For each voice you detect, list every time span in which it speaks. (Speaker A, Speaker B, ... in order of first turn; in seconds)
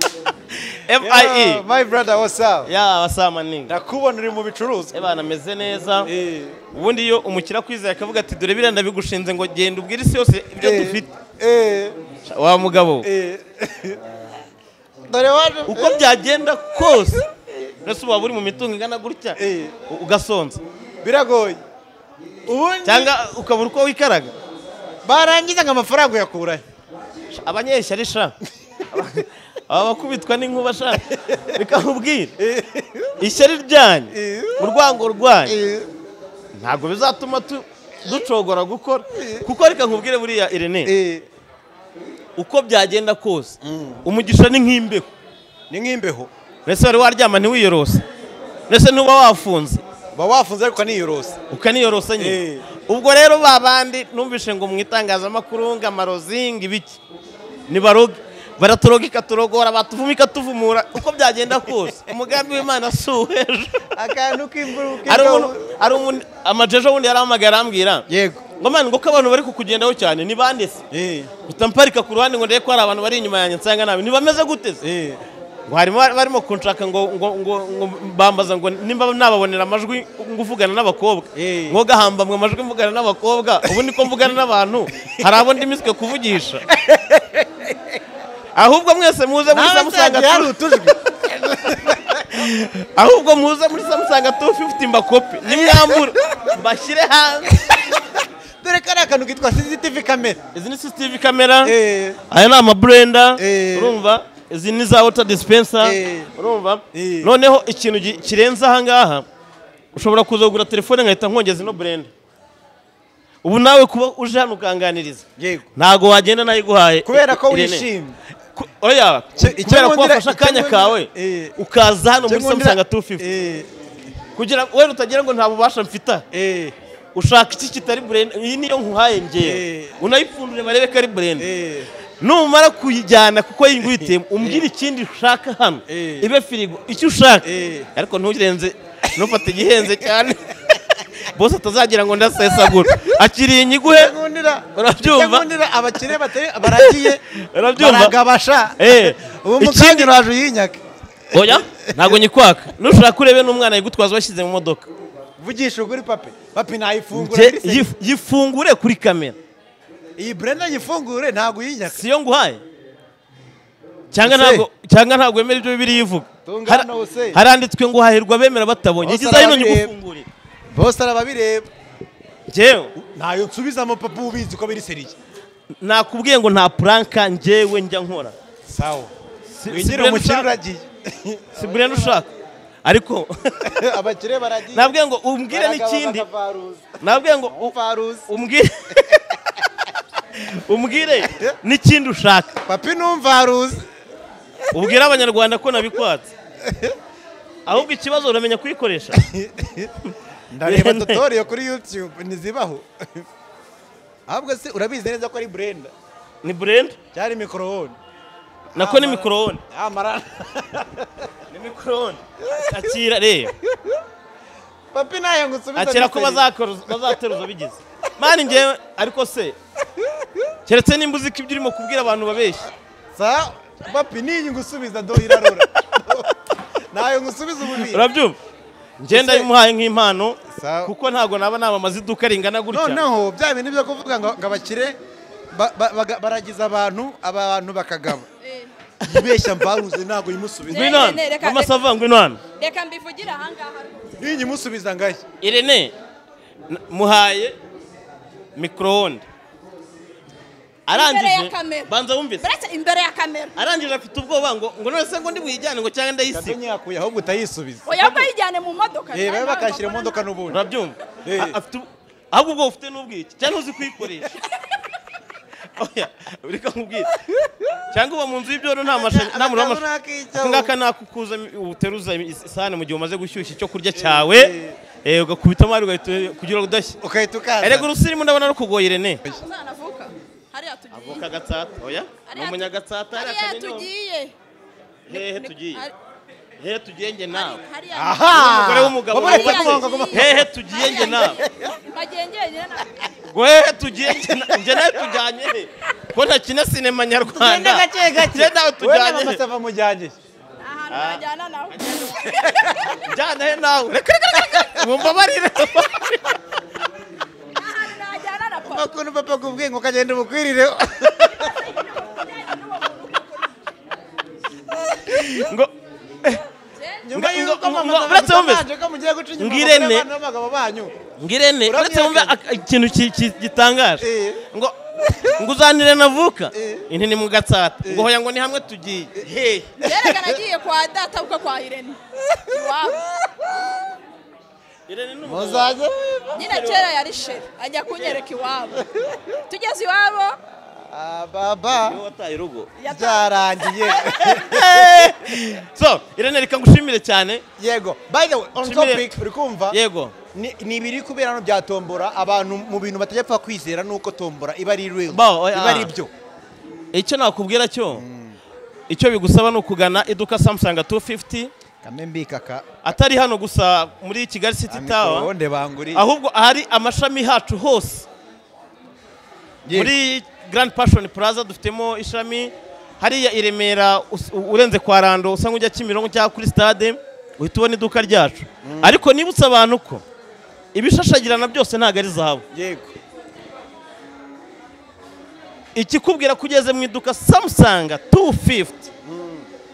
Speaker A: 0.9-1.6, 2.7-3.8, 4.9-6.1, 6.7-11.1, 12.2-13.1, 15.7-17.2, 17.9-19.4, 19.9-20.6, 22.9-24.3, 27.3-28.4, 28.9-32.3, 33.2-35.6, 36.6-40.9, 42.4-45.1, 46.7-48.0, 48.7-49.8, 51.5-57.0, 57.7-64.0, 65.0-68.1, 68.6-70.8, 71.5-74.8, 75.7-86.6, 88.5-90.5, 92.3-97.8, 100.5-101.7, 102.3-109.2, 109.9-112.1, 113.4-115.2, 115.8-117.9, 118.5-123.3, 124.4-126.2, 127.2-131.5, 132.2-140.8, 141.3-144.1, 144.8-145.5, 146.7-148.2, 148.8-150.1, 151.3-154.9, 157.1-159.4, 161.9-162.6, 164.1-170.3, 172.5-172.9, 175.8-178.3, 179.5-180.5, 181.6-182.3, 182.8-183.8, 184.7-186.2, 187.0-187.7, 188.3-189.4, 190.4-192.6, 194.7-196.3, 197.7-199.2, 200.7-201.2, 206.4-207.0, 208.8-209.6, 211.5-213.6, 215.8-219.6, 220.7-222.7, 225.3-225.6, 227.8-228.4, 229.0-233.0, 240.7-242.4, 245.4-245.9, 246.7-247.6, 248.6-249.2, 250.9-252.4, 253.6-256.6, 258.0-258.3, 260.5-264.3, 265.8-267.1, 267.9-274.5, 275.0-277.0, 277.6-279.2, 280.9-283.9, 285.1-285.8, 286.6-287.6, 288.3-291.4, 293.3-299.4, 300.9-301.2, 301.7-302.1, 303.0-306.4, 315.1-315.7, 317.1-318.6, 319.4-320.1, 321.2-329.8, 334.9-335.7, 336.4-336.9, 341.9-342.7, 344.1-347.4, 348.6-349.1, 349.7-350.1, 355.1-355.9, 356.9-358.0, 358.9-361.5, 362.8-365.3, 365.9-368.1, 369.7-380.0, 380.7-382.4, 385.8-388.9
Speaker B: 1.0-2.7, 3.7-5.0, 6.1-6.6, 10.6-12.0, 13.0-14.0, 15.1-16.0, 16.9-17.6, 19.4-19.7, 21.0-21.6, 22.5-23.1, 25.1-26.6, 31.1-31.6, 32.4-33.2, 34.1-34.7, 35.5-35.9, 39.1-39.5, 40.9-41.3, 43.6-44.0, 45.7-46.3, 50.1-51.4, 52.2-52.6, 63.9-65.6, 68.1-68.4, 70.9-71.3, 74.8-75.2, 81.3-81.8, 85.0-85.4, 86.7-88.0, 89.5-92.5, 95.5-96.5, 97.5-100.4, 101.6-102.2, 103.4-104.0, 105.8-106.3, 106.9-107.3, 115.4-115.7, 117.0-118.2, 119.4-121.6, 122.2-123.7, 126.3-126.8, 129.4-130.0, 131.4-131.9, 134.0-134.7, 135.9-136.3, 137.4-137.9, 139.2-140.1, 142.6-143.1, 143.8-147.2, 147.8-152.2, 155.4-157.9, 160.2-162.0, 164.2-164.7, 166.5-167.4, 169.0-169.9, 170.7-171.7, 172.9-175.2, 178.7-179.1, 179.7-182.3, 183.6-184.9, 185.5-188.3, 191.3-191.6, 192.7-193.9, 196.6-197.0, 199.2-199.9, 200.5-203.3, 204.3-205.9, 207.1-208.0, 208.7-211.3, 212.4-212.8, 214.9-216.4, 223.2-228.1, 229.1-229.5, 230.5-230.9, 232.7-235.0, 235.5-238.3, 239.0-241.2, 244.2-245.2, 256.3-257.9, 259.1-260.6, 261.2-261.6, 267.4-267.6, 268.9-270.7, 273.9-274.8, 277.0-277.9, 287.9-290.5, 291.2-291.8, 294.1-295.1, 297.4-300.2, 304.4-304.9, 308.6-311.6, 317.1-321.0, 321.7-322.4, 324.0-324.4, 326.5-326.9, 329.8-330.4, 335.2-336.4, 340.5-342.0, 342.9-345.2, 347.6-349.8, 350.3-356.1, 357.9-358.4, 361.8-362.9, 364.7-366.1, 369.6-369.9, 378.6-379.0, 382.5-382.9, 389.0-389.5
Speaker C: 238.4-238.7, 240.7-241.8, 242.6-244.2, 250.9-253.6, 257.9-260.3, 279.3-281.3, 282.3-284.3, 285.1-285.9, 287.3-288.3, 289.1-293.1, 300.6-303.0, 307.6-308.9, 311.4-313.4, 316.8-317.1, 329.8-333.1, 336.4-338.9, 339.5-340.4, 342.8-343.9